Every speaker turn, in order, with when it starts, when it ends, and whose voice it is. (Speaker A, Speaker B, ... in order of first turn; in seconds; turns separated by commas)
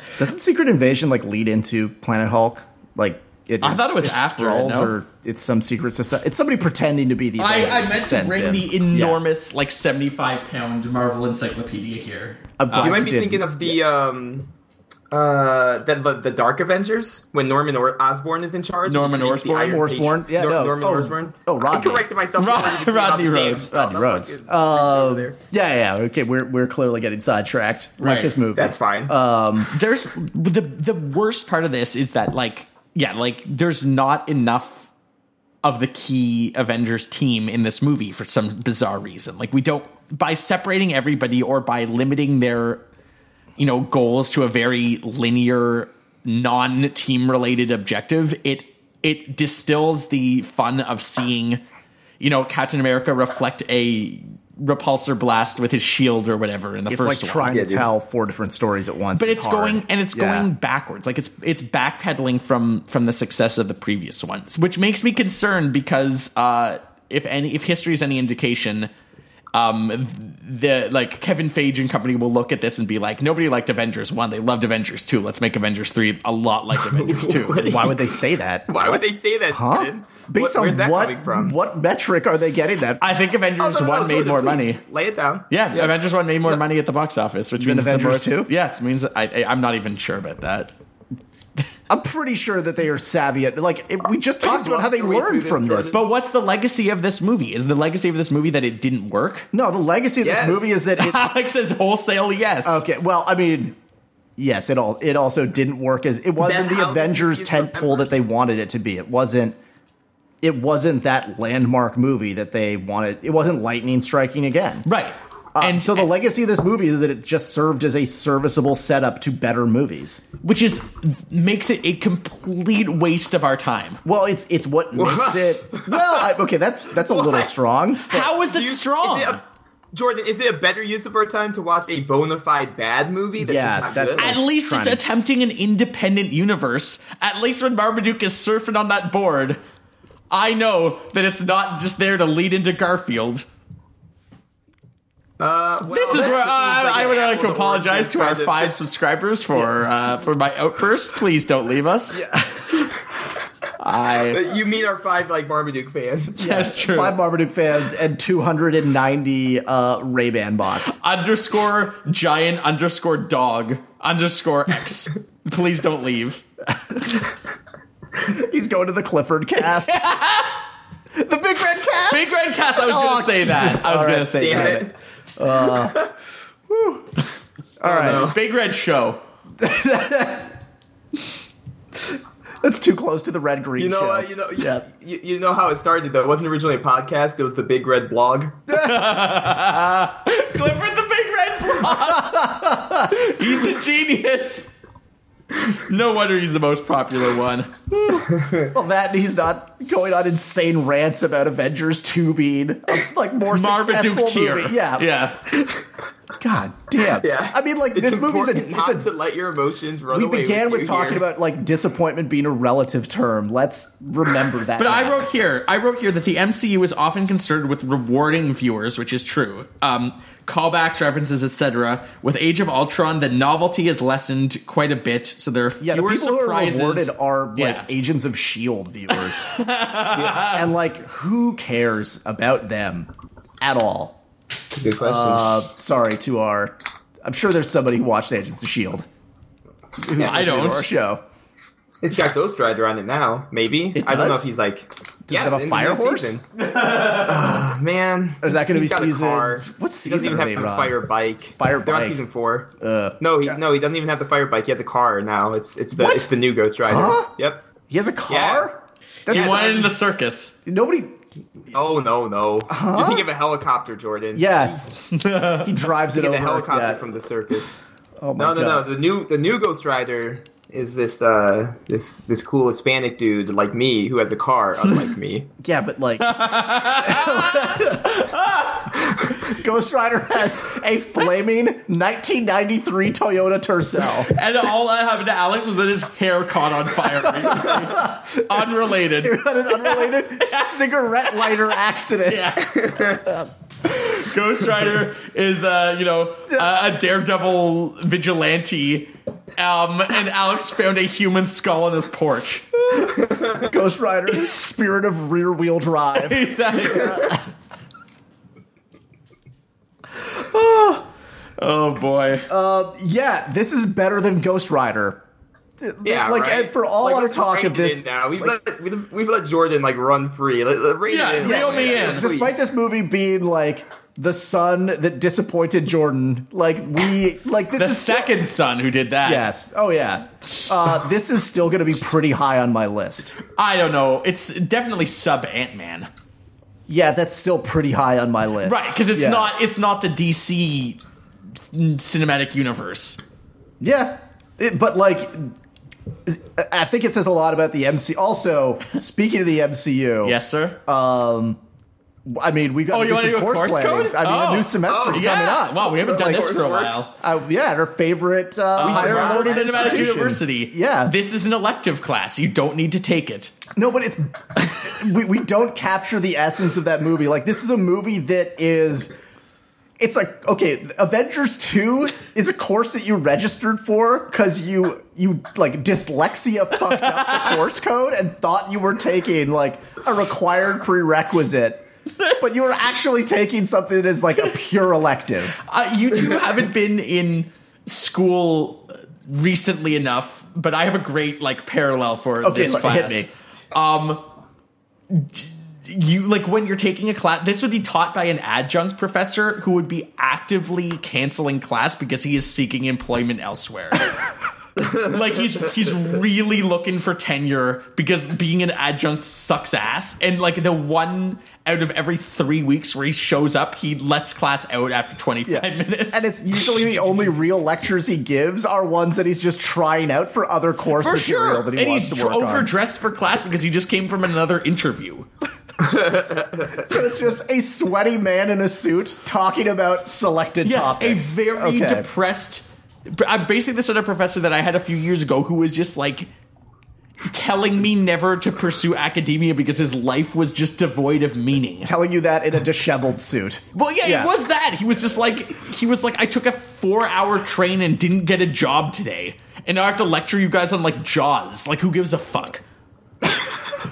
Speaker A: 0.2-9.2, Speaker B: 3.6-4.9, Speaker B: 7.4-13.1, Speaker A: 12.6-13.8, Speaker C: 12.8-14.5, Speaker C: 15.1-25.4, Speaker B: 18.9-19.9, Speaker A: 19.7-22.1, Speaker B: 22.4-23.7, Speaker A: 23.7-29.7, Speaker B: 28.0-28.4, Speaker C: 28.6-29.1, Speaker B: 29.7-34.9, Speaker B: 35.6-42.8, Speaker B: 43.6-51.6, Speaker B: 52.2-57.6, Speaker A: 56.9-60.5, Speaker C: 57.5-57.9, Speaker B: 59.2-68.9, Speaker B: 69.5-77.8, Speaker C: 76.8-78.1, Speaker A: 77.6-83.0, Speaker C: 78.7-81.5, Speaker B: 83.0-84.8, Speaker C: 83.6-86.0, Speaker B: 85.5-90.7, Speaker A: 87.6-88.5, Speaker A: 91.9-96.0, Speaker C: 94.4-96.0, Speaker B: 95.9-99.5, Speaker A: 99.5-101.2, Speaker C: 100.2-100.7, Speaker B: 101.0-102.8, Speaker A: 102.7-103.8, Speaker A: 104.4-109.6, Speaker C: 106.4-108.0, Speaker A: 110.4-114.9, Speaker B: 114.8-116.1, Speaker A: 115.5-120.2, Speaker B: 120.4-124.0, Speaker A: 124.0-128.3, Speaker C: 125.0-126.3, Speaker C: 127.0-127.5, Speaker B: 128.0-129.4, Speaker C: 128.4-129.4, Speaker C: 129.9-134.4, Speaker A: 133.4-135.0, Speaker B: 134.2-139.6, Speaker B: 140.3-143.4, Speaker C: 145.4-148.8, Speaker B: 145.9-152.3, Speaker A: 152.1-152.9, Speaker B: 153.8-154.5, Speaker C: 154.3-156.7, Speaker B: 156.4-157.2, Speaker A: 156.4-161.0, Speaker B: 160.8-166.4, Speaker A: 168.2-170.0, Speaker B: 169.7-170.6, Speaker A: 171.1-176.1, Speaker B: 172.1-174.8, Speaker C: 174.4-174.9, Speaker A: 176.7-177.1, Speaker A: 177.8-178.3, Speaker C: 177.8-178.4, Speaker B: 177.9-179.2, Speaker A: 179.6-180.5, Speaker A: 182.1-184.8, Speaker C: 183.8-188.6, Speaker B: 188.7-194.7, Speaker A: 191.9-193.2, Speaker B: 195.6-197.8, Speaker A: 197.9-205.1, Speaker B: 203.5-205.5, Speaker A: 206.4-209.1, Speaker C: 207.2-211.2, Speaker A: 210.1-215.3, Speaker B: 214.8-227.8, Speaker A: 225.8-229.6, Speaker B: 229.1-230.7, Speaker A: 230.2-233.1, Speaker A: 233.6-234.2, Speaker C: 234.7-235.7, Speaker A: 235.0-239.1, Speaker A: 240.0-241.2, Speaker B: 240.2-240.9, Speaker C: 242.0-246.4, Speaker A: 243.9-244.5, Speaker A: 245.3-246.4, Speaker C: 247.0-257.6, Speaker A: 248.4-250.9, Speaker A: 251.6-252.2, Speaker A: 252.8-253.6, Speaker A: 256.0-256.3, Speaker A: 256.9-257.3, Speaker A: 257.9-259.8, Speaker C: 258.3-258.7, Speaker B: 259.3-260.6, Speaker C: 259.3-259.9, Speaker A: 260.7-261.2, Speaker C: 261.7-264.9, Speaker A: 262.7-263.3, Speaker A: 264.3-264.8, Speaker B: 265.1-265.9, Speaker A: 265.6-267.0, Speaker C: 266.1-267.8, Speaker A: 268.2-268.9, Speaker C: 268.4-275.5, Speaker A: 275.6-278.2, Speaker B: 276.2-278.9, Speaker A: 279.3-284.3, Speaker B: 284.2-291.6, Speaker A: 287.3-288.6, Speaker A: 289.2-293.5, Speaker B: 292.3-293.2, Speaker C: 292.8-293.2, Speaker B: 293.8-302.8, Speaker A: 302.9-307.4, Speaker B: 306.1-307.4, Speaker A: 310.3-311.1, Speaker B: 311.6-312.5, Speaker A: 312.5-315.2, Speaker A: 315.8-318.6, Speaker C: 316.0-322.6, Speaker B: 321.1-322.3, Speaker A: 321.4-328.4, Speaker B: 327.8-329.5, Speaker A: 329.2-333.4, Speaker B: 333.6-336.1, Speaker A: 336.9-339.5, Speaker B: 338.6-341.0, Speaker B: 341.7-343.2, Speaker A: 343.8-345.5, Speaker A: 346.3-351.6, Speaker B: 350.2-350.8, Speaker A: 352.3-356.5, Speaker B: 352.9-357.1, Speaker C: 354.9-357.0, Speaker A: 357.2-361.1, Speaker B: 358.8-363.6, Speaker C: 358.8-360.2, Speaker A: 363.8-369.1, Speaker A: 370.0-381.9, Speaker B: 376.9-377.6, Speaker B: 382.1-382.6, Speaker A: 382.4-385.6, Speaker B: 385.6-394.3, Speaker A: 392.4-393.3, Speaker B: 395.1-404.2, Speaker B: 404.8-417.2, Speaker A: 415.5-422.7, Speaker B: 420.9-425.3, Speaker C: 426.0-426.8, Speaker A: 426.8-432.1, Speaker B: 430.6-436.3, Speaker B: 437.3-441.9, Speaker A: 441.9-444.3, Speaker B: 443.7-452.6